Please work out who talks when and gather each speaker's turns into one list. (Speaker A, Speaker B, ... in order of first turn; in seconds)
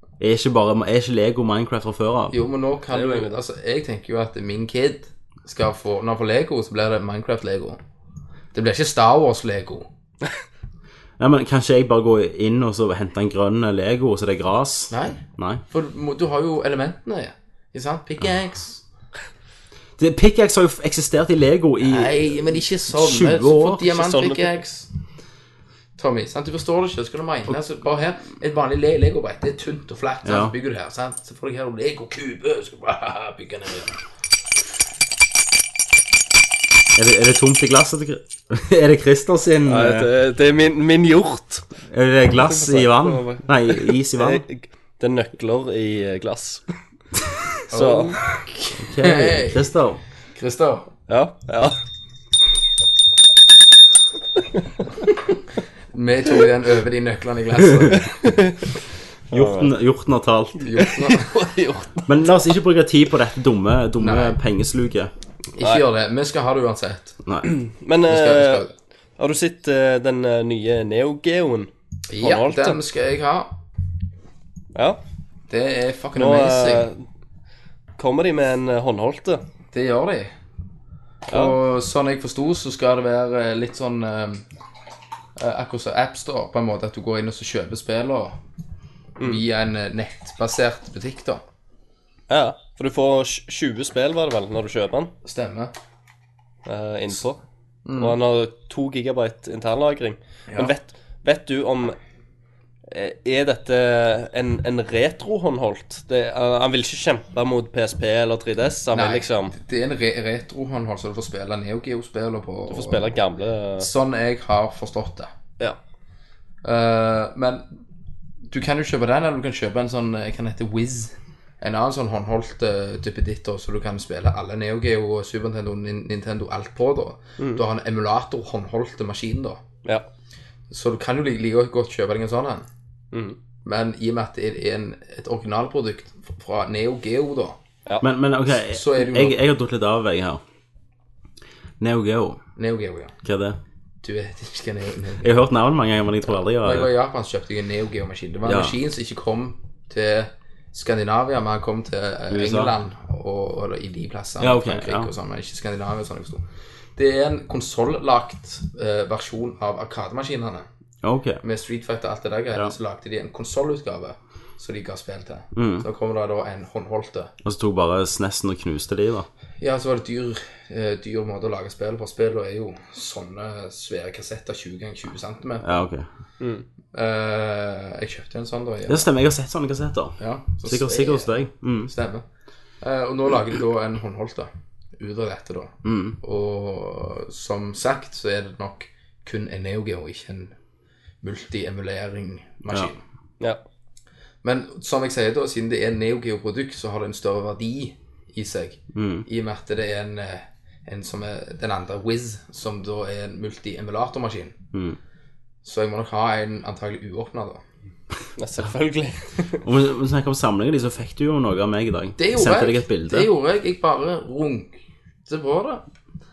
Speaker A: 0.2-2.3, 11.2-15.6, 20.0-23.8, 30.2-30.5, 36.9-40.1, 41.9-44.4, 48.8-50.0, 59.3-60.7, 62.0-65.1, 138.0-140.4, 141.8-142.4, 143.2-143.6, 145.2-146.9, 148.4-148.8, 152.3-152.7, 154.4-155.1, 161.0-161.4, 165.5-165.8, 167.4-169.3, 175.6-176.1, 178.9-181.9, 185.8-186.2, 198.9-199.2, 209.6-213.3
Speaker B: 2.3-7.8, 8.5-9.9, 14.9-18.8, 21.8-24.9, 26.0-34.0, 47.7-49.7, 50.3-50.9, 55.9-58.3, 60.6-61.8, 64.0-64.4, 65.5-67.2, 68.1-68.7, 72.1-73.6, 75.5-76.9, 79.7-80.3, 81.3-84.4, 85.4-88.4, 89.2-91.4, 95.2-95.7, 97.8-98.2, 108.9-113.1, 113.8-115.3, 116.6-117.7, 118.5-129.6, 130.7-132.7, 133.6-137.6, 138.5-139.4, 142.6-143.1, 144.0-145.3, 146.5-156.4, 156.9-160.7, 161.4-167.3, 169.6-175.8, 176.9-179.1, 180.2-182.2, 182.8-190.5, 191.2-193.0, 194.4-204.5, 205.6-207.6, 212.2-215.8
Speaker C: 2.9-3.3, 23.9-24.6, 39.6-41.7, 42.3-46.6, 47.7-48.4, 51.1-51.8, 58.0-58.6, 59.3-59.7, 60.8-62.0, 65.6-65.8, 67.5-68.7, 69.2-71.7, 72.2-72.8, 74.7-75.0, 76.2-77.0, 78.0-79.4, 81.3-81.6, 89.2-89.4, 92.3-95.1, 96.7-97.4, 98.0-102.0, 102.9-109.5, 112.7-113.9, 133.1-133.4, 176.4-176.6, 208.4-209.6